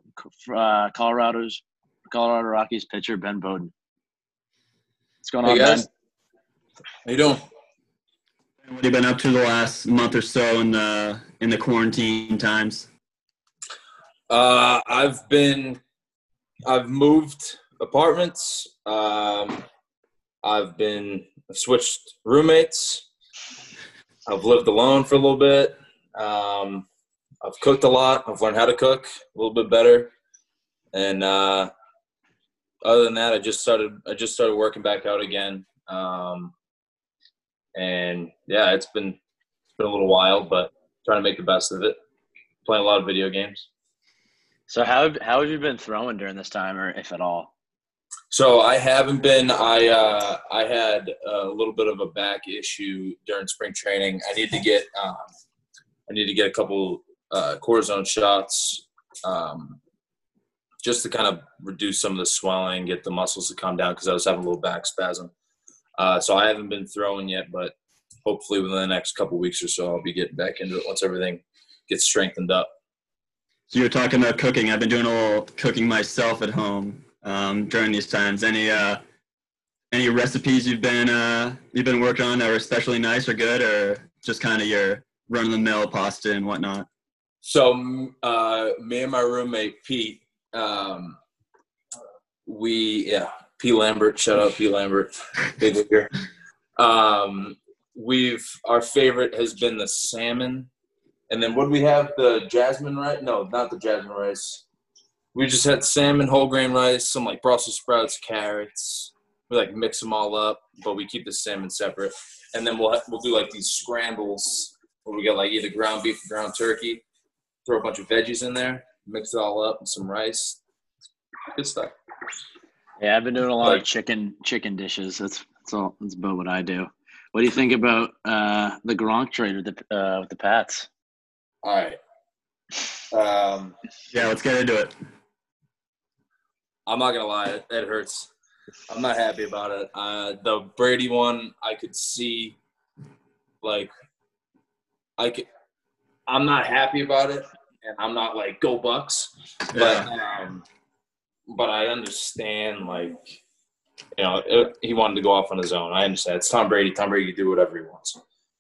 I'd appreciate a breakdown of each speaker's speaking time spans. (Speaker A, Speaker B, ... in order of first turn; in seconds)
Speaker A: 0.2-3.7, 5.2-5.9, 44.7-47.5, 123.0-130.9
Speaker B: 5.4-5.8, 7.0-7.4, 14.3-15.8, 16.6-19.6, 20.4-23.1, 24.3-26.9, 27.4-30.1, 30.9-31.7, 32.8-36.5, 37.8-39.2, 39.8-42.0, 42.7-43.7, 48.3-55.3, 56.1-59.8, 60.8-65.3, 66.0-67.7, 68.2-72.7, 87.4-91.2, 92.5-96.1, 96.8-100.7, 101.3-104.7, 105.3-117.0, 117.7-120.6, 121.5-122.0, 131.6-132.0, 133.1-133.8, 136.9-138.3, 138.9-142.6, 143.6-143.9, 145.2-145.5, 146.3-150.7, 151.5-153.4, 154.2-158.2
Speaker C: 8.6-12.9, 73.7-79.0, 79.9-86.9, 134.1-134.9, 149.7-150.1